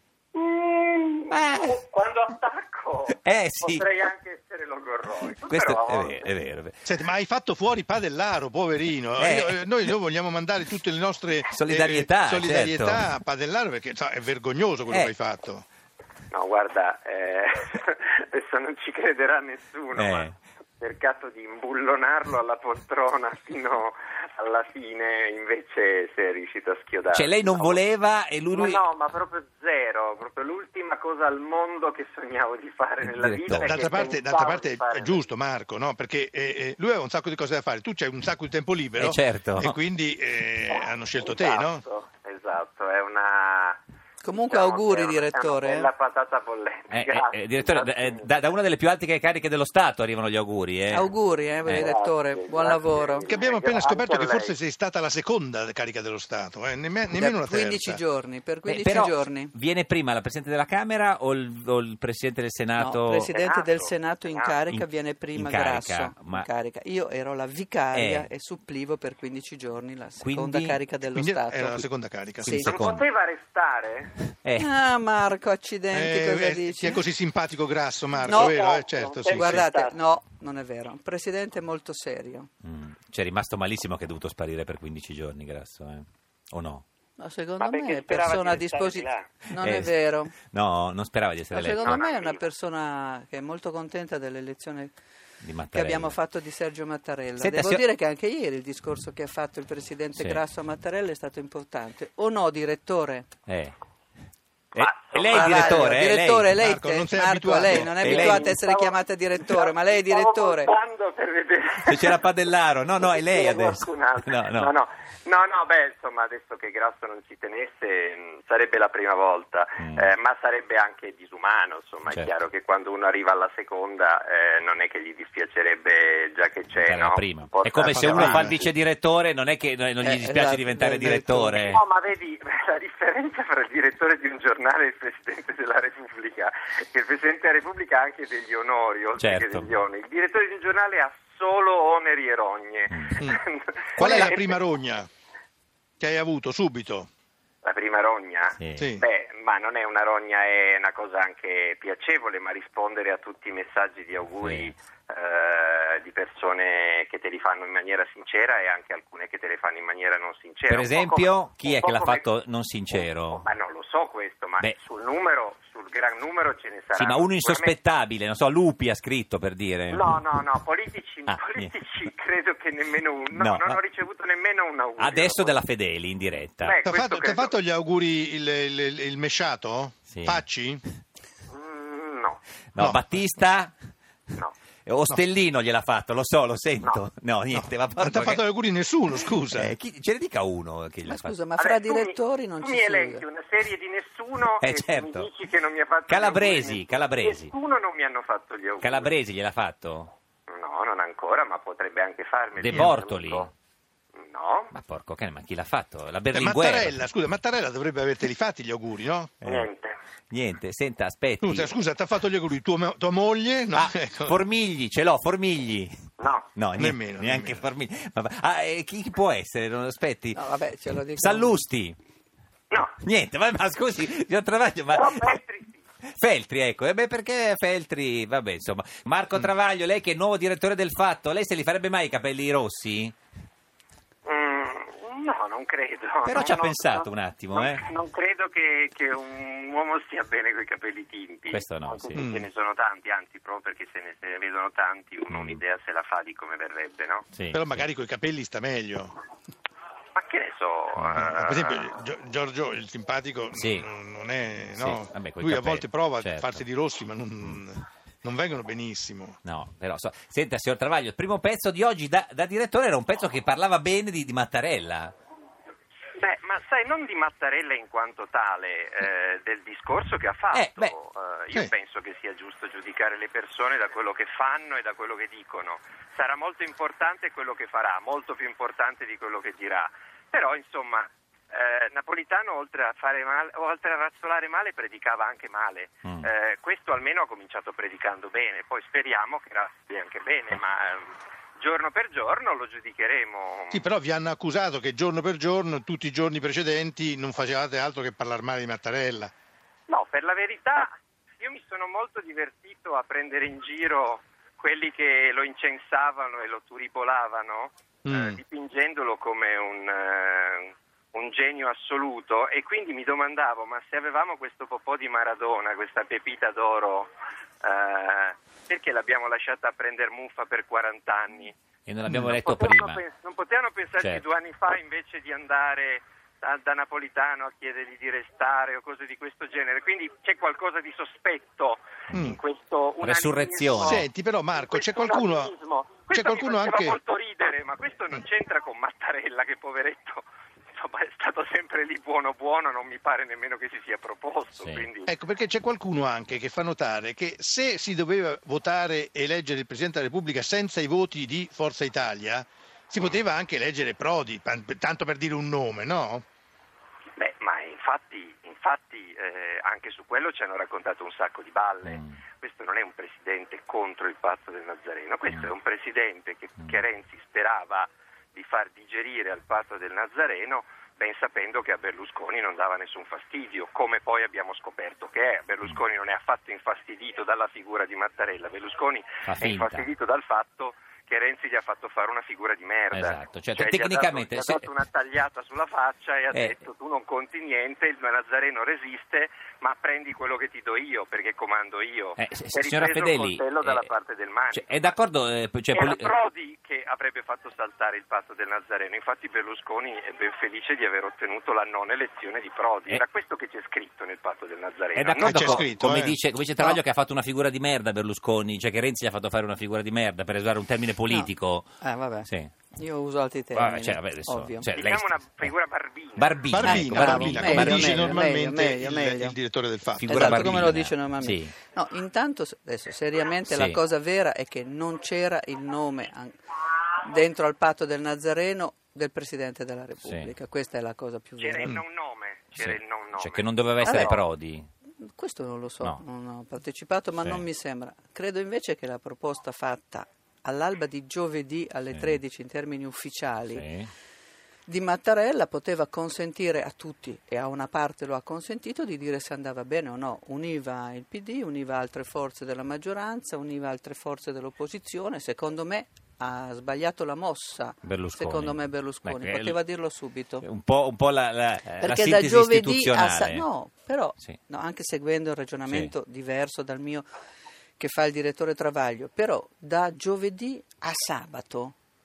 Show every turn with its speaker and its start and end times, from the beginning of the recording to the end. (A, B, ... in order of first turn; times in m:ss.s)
0:00.3-0:06.3 A
0:01.3-0:01.8 B
0:03.1-0:03.9 B
0:05.4-0:06.8 B
0:06.8-0:15.6 C
0:09.2-0:09.9 B
0:11.5-0:13.0 B
0:16.3-0:20.3 A
0:19.9-0:20.4 B
0:20.8-0:27.8 A
0:27.1-0:28.8 B
0:28.5-0:35.3 A
0:33.0-0:33.8 B
0:33.6-0:41.8 C
0:39.0-0:39.8 B
0:40.7-0:43.8 A
0:44.2-0:45.9 D
0:44.3-0:48.4 A
0:46.9-0:51.1 B
0:50.9-0:53.3 D
0:51.7-0:54.5 A
0:53.2-0:58.0 C
0:57.1-0:59.5 D
0:58.7-1:03.3 B
1:02.8-1:11.8 D
1:03.3-1:04.6 A
1:04.7-1:06.5 B
1:07.9-1:08.3 B
1:10.2-1:10.8 B
1:11.1-1:12.6 C
1:12.4-1:12.7 D
1:12.4-1:13.0 B
1:12.6-1:14.3 A
1:14.4-1:14.7 B
1:14.6-1:17.0 D
1:15.9-1:19.7 C
1:18.2-1:20.0 A
1:18.2-1:18.6 D
1:19.3-1:22.5 D
1:22.6-1:26.8 B
1:27.2-1:30.4 D
1:27.6-1:29.3 A
1:29.6-1:31.9 B
1:31.5-1:34.9 D
1:31.8-1:32.4 A
1:35.4-1:36.2 B
1:35.7-1:43.3 D
1:37.4-1:37.8 B
1:40.1-1:40.4 B
1:43.5-1:43.8 B
1:44.7-1:45.9 A
1:44.7-1:46.5 B
1:45.2-1:50.7 D
1:46.6-1:48.4 C
1:47.8-1:52.3 A
1:48.0-1:48.5 B
1:51.8-1:54.7 B
1:53.0-2:08.7 A
1:59.8-2:00.1 B
2:06.8-2:11.8 B
2:08.0-2:08.5 C
2:10.0-2:11.8 D
2:11.7-2:24.6 A
2:19.2-2:19.7 B
2:22.9-2:23.1 B
2:24.0-2:25.1 C
2:26.0-2:27.1 C
2:27.6-2:42.2 A
2:28.6-2:28.9 B
2:28.8-2:29.0 C
2:34.4-2:34.7 B
2:40.7-2:43.4 B
2:42.9-2:47.7 A
2:46.9-2:50.4 B
2:49.9-2:55.6 A
2:51.3-2:51.7 B
2:53.3-2:53.8 B
2:55.0-2:56.8 B
2:56.6-2:57.5 A
2:56.8-3:00.8 C
3:00.1-3:00.4 B
3:01.5-3:02.4 A
3:02.7-3:03.8 B
3:02.8-3:03.0 C
3:04.8-3:08.4 B
3:07.5-3:09.7 C
3:09.5-3:11.4 B
3:11.0-3:13.2 D
3:11.6-3:19.1 A
3:14.6-3:15.3 B
3:16.1-3:17.5 B
3:18.8-3:20.1 B
3:20.5-3:23.5 A
3:22.6-3:23.5 B
3:24.2-3:24.7 A
3:24.7-3:27.0 B
3:26.3-3:29.4 C
3:29.4-3:29.7 B
3:29.4-3:30.0 A
3:30.3-3:31.7 B
3:31.4-3:34.4 C
3:33.7-3:35.9 B
3:36.2-3:36.5 A
3:36.5-3:40.4 B
3:36.8-3:37.7 C
3:40.3-3:41.6 D
3:41.1-3:42.0 B
3:43.0-3:45.3 B
3:44.9-3:45.8 A
3:46.0-3:53.1 B
3:54.2-4:07.3 A
3:56.2-3:57.8 B
4:01.5-4:02.2 B
4:02.1-4:02.5 C
4:05.3-4:05.6 B
4:07.3-4:07.8 B
4:07.5-4:09.1 C
4:10.1-4:11.9 A
4:11.0-4:11.3 B
4:11.2-4:19.4 C
4:13.5-4:13.9 B
4:14.7-4:16.6 B
4:19.4-4:25.1 B
4:26.1-4:53.8 A
4:30.5-4:30.9 B
4:53.7-4:59.3 C
4:59.9-5:17.1 A
5:08.0-5:08.4 C
5:17.6-5:21.6 A
5:21.8-5:23.0 B
5:22.1-5:22.3 C
5:22.3-5:45.1 A
5:32.1-5:32.4 C
5:33.0-5:34.0 B
5:33.8-5:35.5 C
5:36.1-5:37.0 C
5:44.6-5:44.9 B
5:45.1-5:56.2 C
5:57.2-6:34.9 A
6:01.8-6:02.2 B
6:19.2-6:19.9 B
6:22.9-6:24.7 B
6:26.3-6:26.6 B
6:32.2-6:33.9 B
6:34.5-6:36.1 B
6:35.7-6:45.7 A
6:44.9-6:51.7 B
6:45.2-6:46.2 C
6:51.1-6:54.7 D
6:52.2-6:52.5 B
6:53.5-6:55.5 B
6:54.7-6:56.4 A
6:56.2-6:58.2 B
6:56.5-7:00.7 C
6:56.6-6:59.4 D
7:00.0-7:01.6 B
7:00.0-7:06.3 D
7:03.5-7:03.8 B
7:07.0-7:11.8 D
7:10.0-7:10.3 B
7:11.4-7:14.2 A
7:12.6-7:14.7 B
7:13.8-7:14.1 D
7:15.0-7:23.6 D
7:17.2-7:17.4 B
7:21.9-7:22.2 B
7:23.5-7:23.9 B
7:24.7-7:40.4 D
7:37.8-7:39.6 B
7:40.4-7:43.4 B
7:41.8-7:47.1 D
7:47.8-7:51.7 D